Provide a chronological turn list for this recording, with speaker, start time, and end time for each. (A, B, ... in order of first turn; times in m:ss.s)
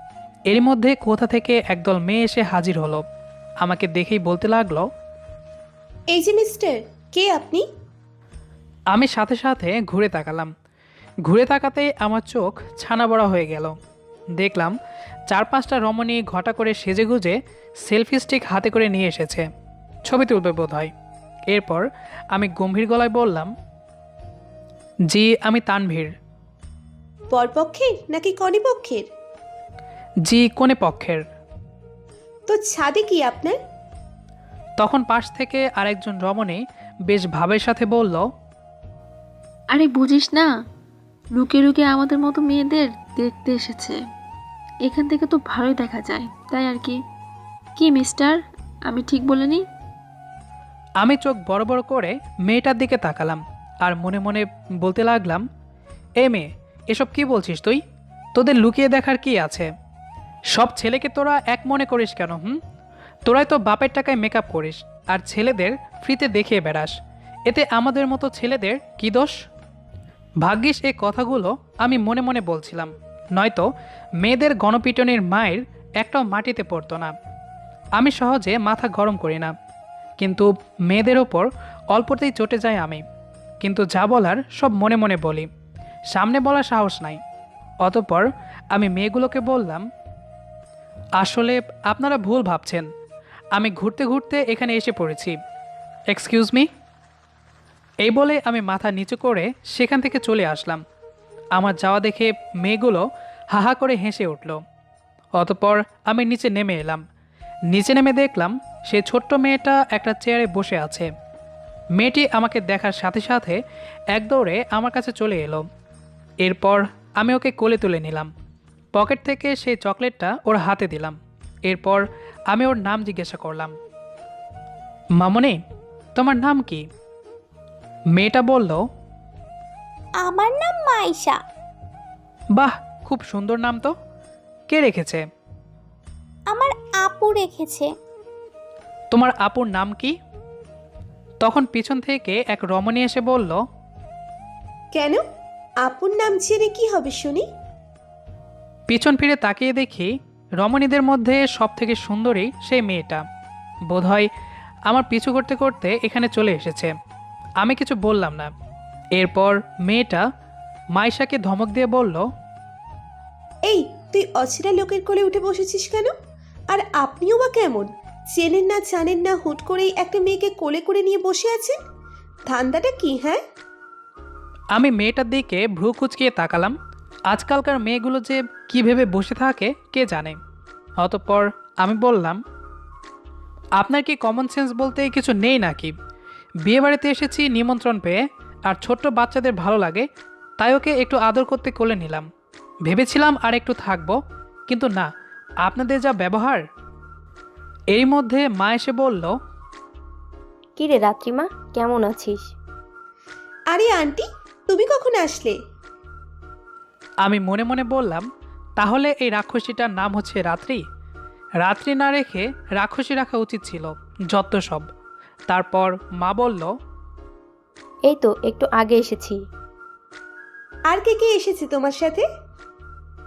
0:00.5-0:03.0 A
0:03.6-0:04.9 A
0:06.1-0:07.6 B
0:08.9-0:10.5 A
0:11.2-0:13.7 A
0:14.4-0:14.7 A
0:15.3-0:19.4 A
0:20.0-0:20.9 A
0:21.5-0:23.5 A
0:25.1-0:26.1 A
0:27.3-0:29.1 B
0:30.2-0:31.2 A
0:32.5-0:33.6 B
0:34.8-0:38.3 A
0:39.7-0:40.5 C
0:41.3-0:44.0 C
0:44.8-0:47.0 C
0:47.8-0:49.6 C
0:51.0-0:55.4 A
0:56.2-0:57.8 A
0:58.3-0:59.7 A
1:00.5-1:02.6 A
1:03.2-1:06.9 A
1:07.5-1:09.3 A
1:10.4-1:13.7 A
1:14.2-1:17.1 A
1:18.0-1:19.5 A
1:20.2-1:23.0 A
1:23.6-1:25.5 A
1:26.1-1:27.2 A
1:27.8-1:29.8 A
1:31.2-1:32.9 A
1:33.5-1:35.4 A
1:36.1-1:36.7 A
1:38.0-1:40.8 A
1:41.5-1:44.6 A
1:45.4-1:47.0 A
1:47.7-1:51.1 A
1:52.0-1:53.6 A
1:54.1-1:55.6 A
1:56.4-1:58.3 A
1:58.9-2:03.8 A
2:05.2-2:05.6 A
2:06.1-2:06.8 A
2:08.1-2:08.8 A
2:10.2-2:11.4 D
2:12.5-2:13.9 A
2:14.7-2:15.2 A
2:16.5-2:17.9 D
2:19.1-2:20.1 A
2:21.4-2:23.6 A
2:24.9-2:25.2 B
2:25.8-2:27.4 B
2:28.9-2:33.2 A
2:33.9-2:34.3 A
2:34.9-2:36.9 A
2:37.6-2:38.5 A
2:39.1-2:40.2 A
2:40.9-2:42.2 A
2:43.6-2:46.1 B
2:46.7-2:51.8 B
2:52.5-2:53.4 B
2:54.7-2:56.8 A
2:57.3-3:00.4 A
3:01.0-3:02.4 A
3:03.8-3:05.9 A
3:06.6-3:10.1 A
3:10.6-3:12.3 A
3:12.8-3:14.2 A
3:14.7-3:15.1 A
3:15.6-3:16.6 A
3:17.9-3:19.4 A
3:20.8-3:22.5 E
3:23.7-3:25.6 B
3:27.2-3:28.2 A
3:28.8-3:30.8 A
3:31.6-3:34.9 A
3:35.5-3:36.7 A
3:38.1-3:39.4 E
3:40.9-3:42.2 B